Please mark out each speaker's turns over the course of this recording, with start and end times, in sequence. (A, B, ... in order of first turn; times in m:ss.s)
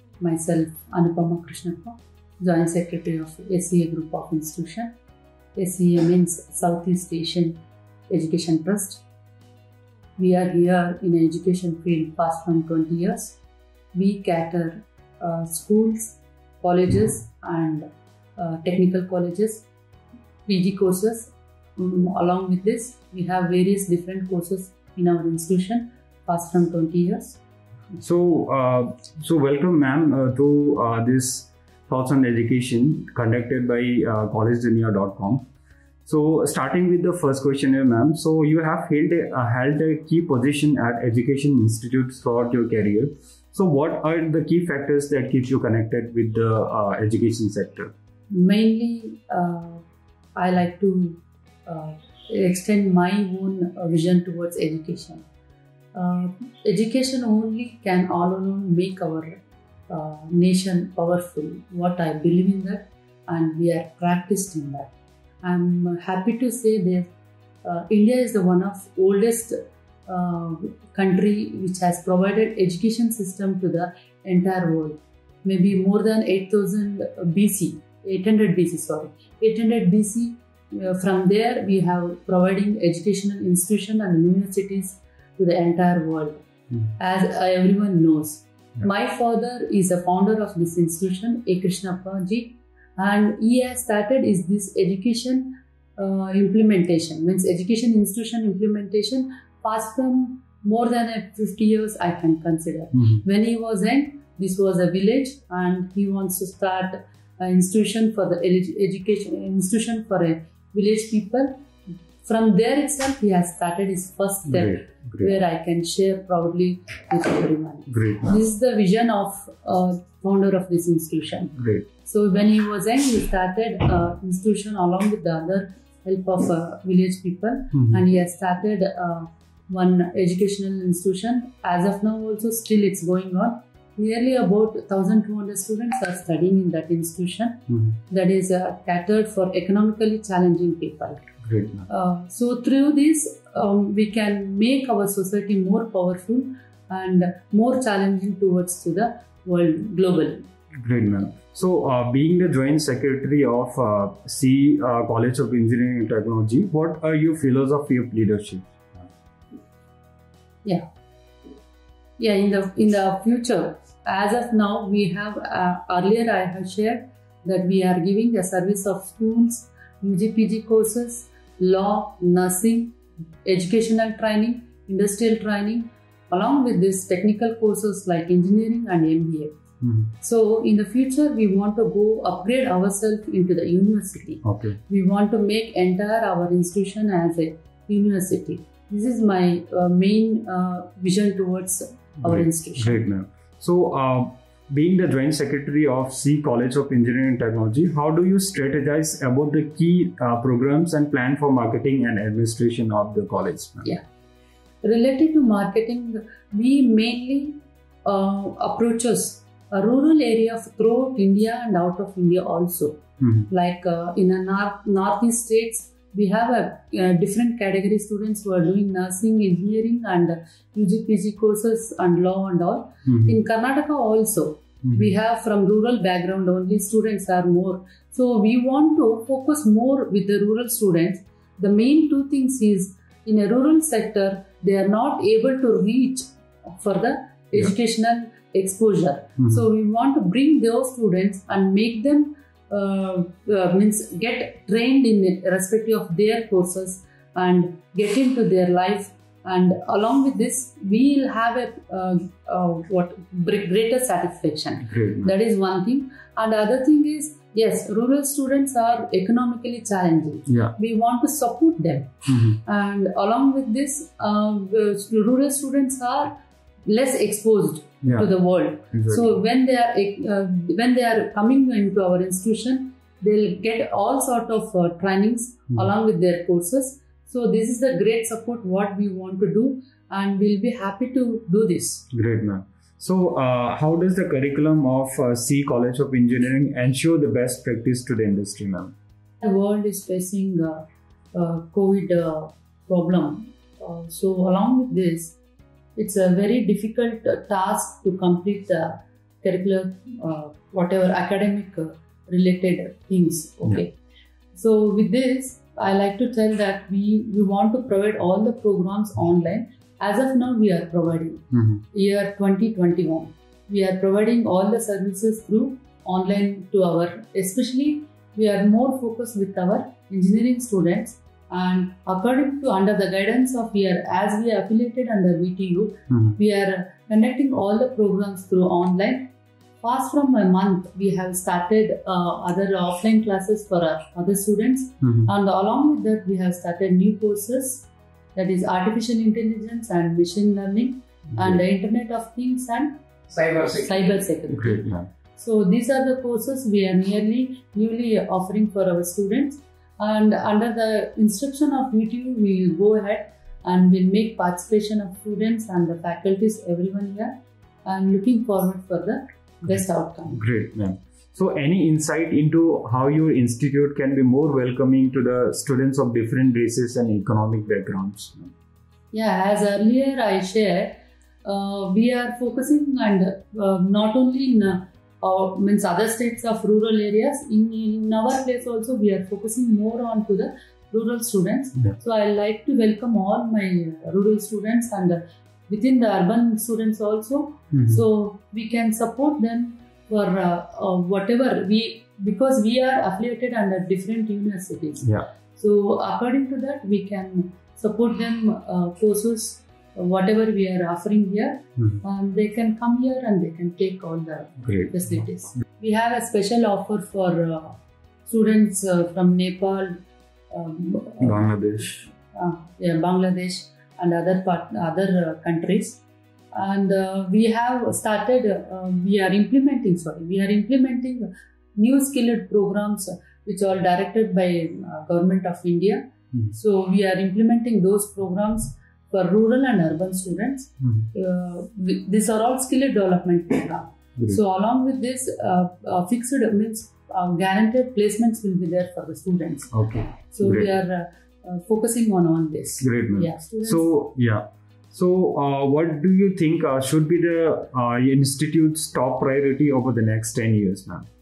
0:00.2-0:04.9 A
0:05.6-0:09.0 A
0:10.2-0:13.4 A
0:13.9-0:19.7 A
0:20.5-0:27.4 A
0:28.0-0:35.5 B
0:36.1-0:47.9 B
0:48.3-0:49.8 A
0:50.4-0:55.2 A
0:55.9-1:07.1 A
1:07.6-1:51.5 A
1:52.2-2:21.2 A
1:54.5-1:55.3 B
1:57.9-1:58.4 B
2:01.6-2:01.8 B
2:07.7-2:08.0 B
2:17.7-2:18.0 B
2:21.4-2:21.9 B
2:21.9-2:30.5 A
2:30.8-2:39.1 B
2:42.2-2:59.5 A
2:59.8-3:00.1 B
3:00.2-3:13.0 A
3:04.4-3:04.8 B
3:12.2-3:23.9 B
3:24.8-4:26.3 A
3:33.2-3:33.5 B
3:43.1-3:43.4 B
3:44.8-3:45.1 B
4:14.8-4:15.3 B
4:20.5-4:20.8 B
4:22.3-4:22.6 B
4:26.9-4:42.1 A
4:28.0-4:28.3 B
4:28.9-4:29.3 B
4:42.1-4:48.9 B
4:49.4-4:55.4 A
4:56.0-5:04.0 A
5:04.5-5:29.3 A
5:26.1-5:26.4 B
5:29.8-5:57.3 A
5:35.0-5:35.3 B
5:41.3-5:41.6 B
5:44.5-5:45.1 B
5:57.8-6:00.4 A
6:00.3-6:08.5 B
6:09.1-6:51.5 A
6:27.7-6:28.0 B
6:44.6-6:44.9 B
6:51.2-6:52.1 B
6:52.1-6:56.0 A
6:56.5-7:23.9 A
7:10.8-7:11.1 B
7:19.7-7:20.7 B
7:22.8-7:31.1 B